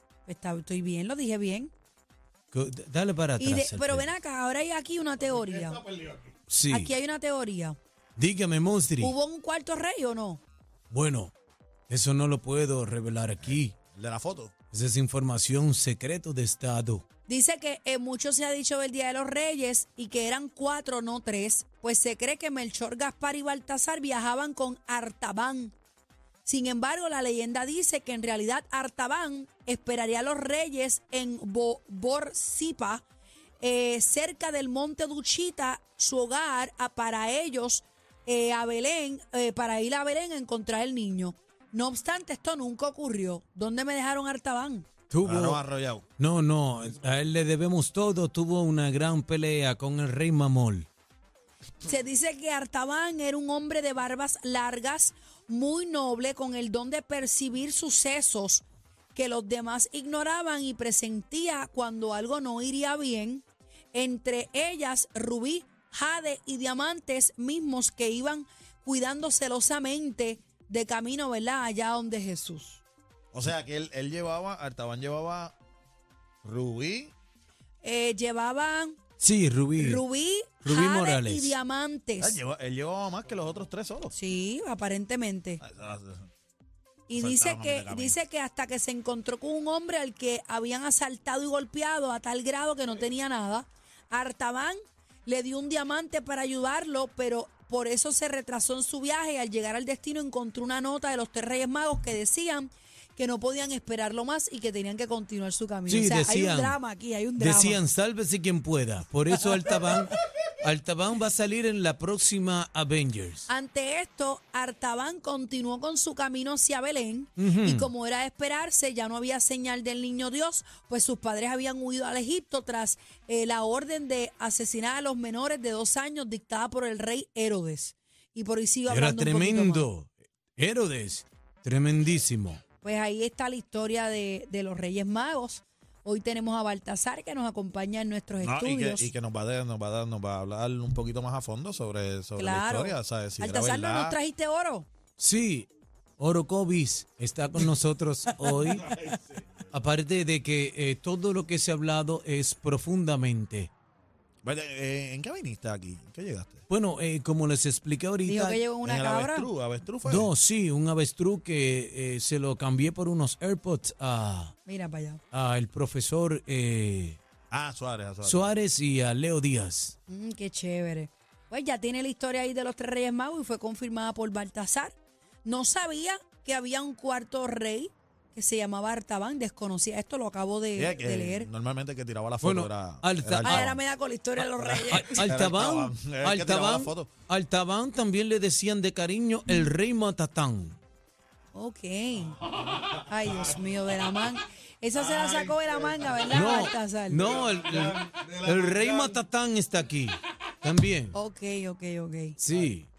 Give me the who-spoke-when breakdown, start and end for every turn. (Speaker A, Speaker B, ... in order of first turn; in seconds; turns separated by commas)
Speaker A: 0.2-1.7, Speaker B: 2.5-4.1, Speaker A: 3.4-5.8, Speaker B: 6.5-6.9, Speaker A: 6.7-7.8, Speaker B: 8.2-9.1, Speaker A: 9.0-10.4, Speaker B: 10.9-11.3, Speaker B: 11.9-13.8, Speaker C: 13.4-14.5, Speaker B: 14.7-17.0, Speaker A: 17.3-25.7, Speaker A: 26.4-33.0, Speaker A: 33.6-44.9, Speaker B: 45.1-45.6, Speaker C: 45.2-46.0, Speaker B: 46.2-50.9, Speaker A: 51.8-72.8, Speaker C: 73.3-75.5, Speaker C: 76.4-77.1, Speaker A: 77.8-79.0, Speaker B: 79.2-80.0, Speaker A: 79.8-82.4, Speaker B: 80.6-81.5, Speaker C: 82.2-84.1, Speaker A: 84.1-85.6, Speaker C: 85.6-86.3, Speaker A: 87.1-107.8, Speaker C: 87.1-88.2, Speaker B: 105.9-106.8, Speaker B: 107.4-113.5, Speaker A: 113.5-129.9, Speaker B: 117.4-117.9, Speaker B: 128.9-132.6, Speaker A: 132.8-139.1, Speaker C: 138.4-144.2, Speaker A: 142.4-144.9, Speaker B: 145.2-145.7, Speaker B: 146.2-148.9, Speaker B: 149.7-153.7, Speaker C: 154.4-156.6, Speaker B: 156.7-158.6, Speaker A: 158.2-159.5, Speaker C: 158.8-160.3, Speaker B: 160.0-164.5, Speaker A: 164.6-165.2, Speaker B: 165.3-167.2, Speaker C: 167.5-168.5, Speaker B: 168.2-169.9, Speaker A: 170.1-174.9, Speaker A: 175.4-181.5, Speaker C: 180.8-183.8, Speaker B: 182.4-183.7, Speaker A: 183.4-185.3, Speaker C: 184.6-187.1, Speaker B: 184.9-190.8, Speaker A: 191.5-192.4, Speaker A: 193.1-197.3, Speaker C: 195.0-196.6, Speaker B: 196.3-201.2, Speaker C: 197.3-199.1, Speaker A: 201.1-202.4, Speaker B: 202.4-202.9